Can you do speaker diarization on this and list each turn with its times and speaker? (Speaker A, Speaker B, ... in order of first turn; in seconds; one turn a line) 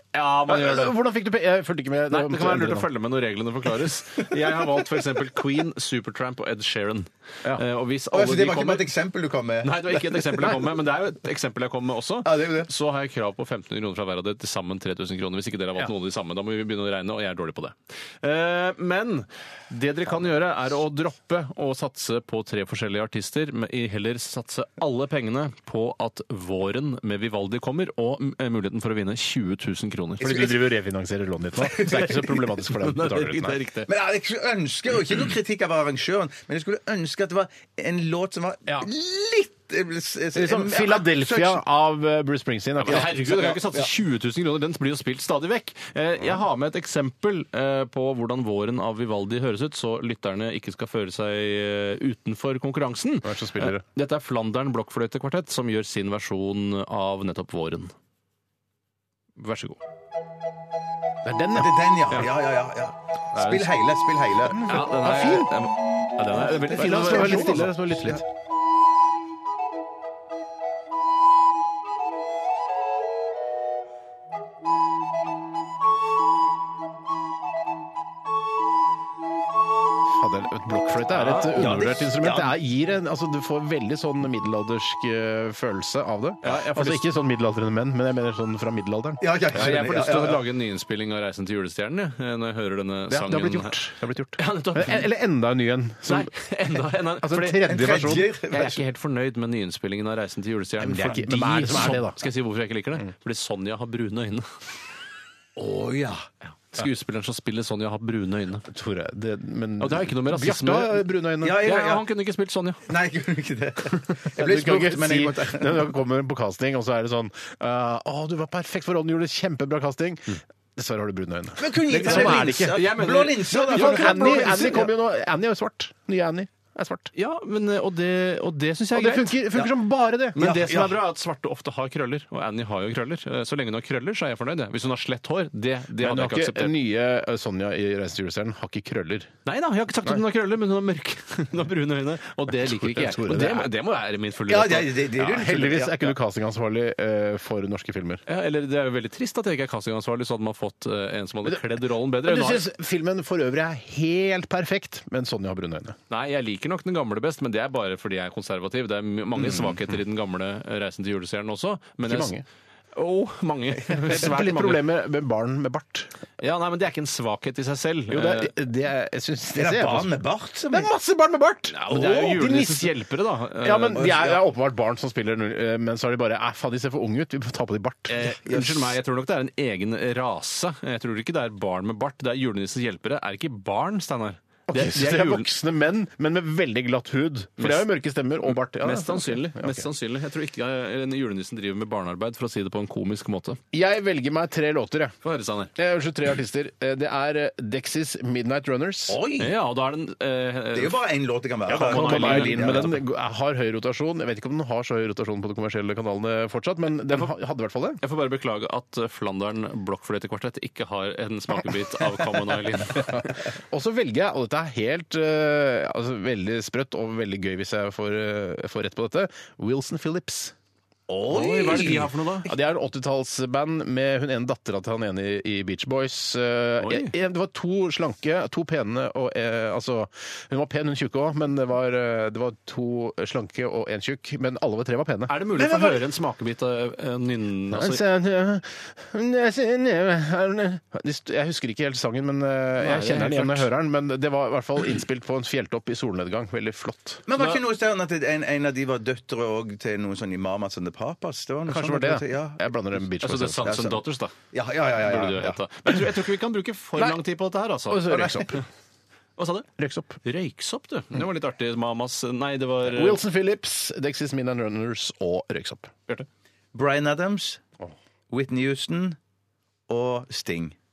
Speaker A: 0.1-0.9
Speaker B: 0.5-2.9
Speaker A: 2.1-8.9
Speaker C: 8.1-10.6
Speaker A: 9.6-30.3
Speaker C: 12.2-12.7
Speaker B: 30.2-33.6
Speaker C: 30.2-30.6
Speaker C: 31.7-32.2
Speaker A: 31.8-33.9
Speaker C: 33.9-41.6
Speaker B: 40.3-43.1
Speaker A: 42.8-57.9
Speaker C: 42.9-43.9
Speaker B: 53.2-53.8
Speaker A: 59.4-59.8
Speaker B: 61.2-61.8
Speaker C: 61.5-64.8
Speaker A: 63.3-63.7
Speaker B: 64.5-65.5
Speaker A: 64.6-68.2
Speaker C: 66.5-67.7
Speaker B: 66.5-68.2
Speaker B: 80.1-89.7
Speaker A: 81.1-81.5
Speaker C: 81.5-82.5
Speaker A: 86.4-87.1
Speaker C: 89.2-90.4
Speaker A: 89.5-93.8
Speaker B: 93.1-96.3
Speaker A: 94.4-95.1
Speaker A: 96.0-97.7
Speaker B: 97.2-98.3
Speaker C: 97.6-98.8
Speaker A: 98.5-104.5
Speaker B: 100.8-102.2
Speaker C: 105.5-106.3
Speaker A: 106.6-108.7
Speaker B: 108.7-111.7
Speaker A: 109.8-112.8
Speaker C: 111.4-112.0
Speaker C: 112.9-115.9
Speaker B: 114.4-122.9
Speaker C: 121.6-124.9
Speaker A: 121.9-124.9
Speaker B: 123.5-127.1
Speaker A: 127.1-129.7
Speaker B: 128.9-130.7
Speaker A: 130.3-136.8
Speaker C: 130.4-130.9
Speaker B: 136.0-139.3
Speaker A: 139.4-145.0
Speaker B: 142.5-143.7
Speaker C: 144.5-146.1
Speaker B: 145.1-148.2
Speaker A: 148.3-152.7
Speaker B: 151.4-156.0
Speaker A: 156.1-162.3
Speaker B: 162.0-162.4
Speaker A: 162.9-164.8
Speaker B: 164.0-166.1
Speaker A: 166.4-168.5
Speaker B: 168.1-170.1
Speaker C: 169.5-170.9
Speaker B: 170.7-173.0
Speaker A: 171.7-174.3
Speaker B: 173.6-178.3
Speaker C: 174.0-174.3
Speaker A: 178.1-185.5
Speaker C: 178.5-178.9
Speaker B: 184.7-189.9
Speaker A: 187.6-187.9
Speaker A: 188.4-193.6
Speaker B: 193.7-195.1
Speaker A: 195.2-195.7
Speaker B: 195.7-199.2
Speaker C: 199.1-199.5
Speaker A: 199.4-201.0
Speaker C: 200.7-203.0
Speaker A: 201.7-203.0
Speaker B: 201.7-208.0
Speaker A: 208.0-213.5
Speaker B: 212.9-220.5
Speaker C: 221.1-222.1
Speaker A: 221.2-222.5
Speaker B: 221.6-235.3
Speaker A: 226.8-227.1
Speaker A: 235.3-238.0
Speaker C: 235.5-236.0
Speaker B: 237.7-247.2
Speaker A: 242.8-243.7
Speaker C: 247.3-252.7
Speaker B: 251.7-253.8
Speaker A: 253.2-254.3
Speaker C: 253.6-255.6
Speaker A: 255.0-258.6
Speaker B: 257.9-258.6
Speaker C: 258.1-258.4
Speaker A: 259.4-259.7
Speaker B: 259.8-260.2
Speaker A: 260.2-263.2
Speaker B: 262.8-265.9
Speaker C: 266.7-267.6
Speaker C: 268.3-269.2
Speaker C: 269.9-270.7